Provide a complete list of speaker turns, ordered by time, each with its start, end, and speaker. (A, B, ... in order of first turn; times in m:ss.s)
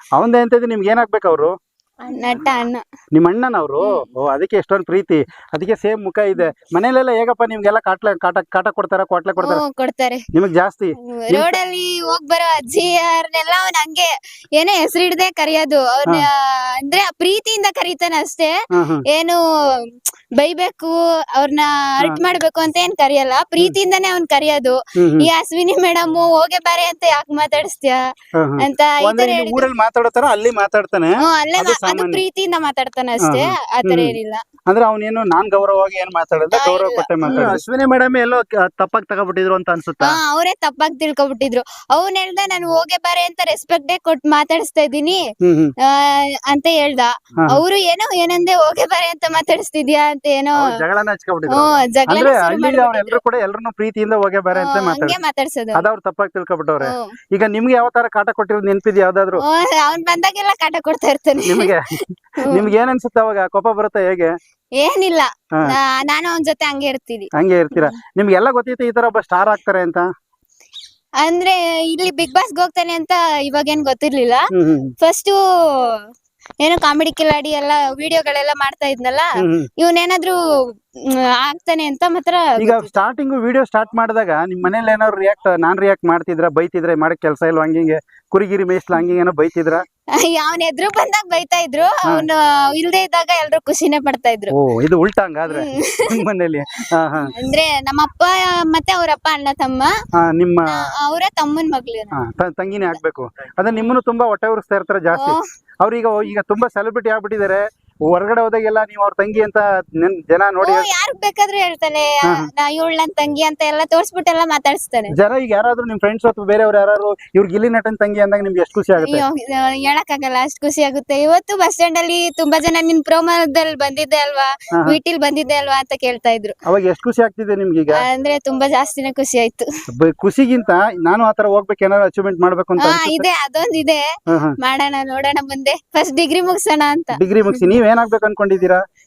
0:00.2-0:01.5 A
0:02.1-0:02.8 B
0:03.1-0:09.6 A
0:09.4-0:10.2 B
0:10.3-0:11.6 A
0:11.1-0:18.5 B
0:18.7-0:19.0 A
0:19.1-0:19.4 B
0:20.4-0:28.0 B
0:25.0-0:25.3 A
0:28.4-0:32.2 A
0:28.6-0:29.7 B
0:31.2-0:34.4 B
0:33.2-0:34.2 A
0:34.7-0:37.6 A
0:36.5-0:37.5 B
0:37.2-0:40.2 C
0:40.0-0:45.2 B
0:45.4-0:45.7 A
0:45.9-0:50.6 B
0:50.6-0:55.2 A
0:51.5-0:53.2 B
0:54.6-0:55.8 B
0:55.8-0:59.4 A
0:59.4-1:01.7 B
1:01.4-1:04.3 A
1:04.8-1:07.9 B
1:07.4-1:10.0 A
1:11.2-1:14.5 B
1:14.5-1:14.9 A
1:15.0-1:16.0 B
1:16.6-1:20.4 B
1:19.4-1:19.7 A
1:21.0-1:22.9 B
1:22.6-1:29.8 A
1:30.1-1:34.5 B
1:34.5-1:37.3 A
1:35.5-1:36.1 B
1:37.2-1:39.9 B
1:40.2-1:40.9 A
1:40.7-1:42.2 B
1:42.1-1:50.9 A
1:45.1-1:45.4 B
1:50.6-1:55.1 B
1:55.1-1:59.2 A
1:59.0-2:06.5 B
2:06.6-2:08.0 A
2:08.0-2:09.7 B
2:09.9-2:13.3 A
2:12.8-2:14.0 B
2:14.3-2:14.6 A
2:14.6-2:17.2 B
2:17.2-2:18.8 A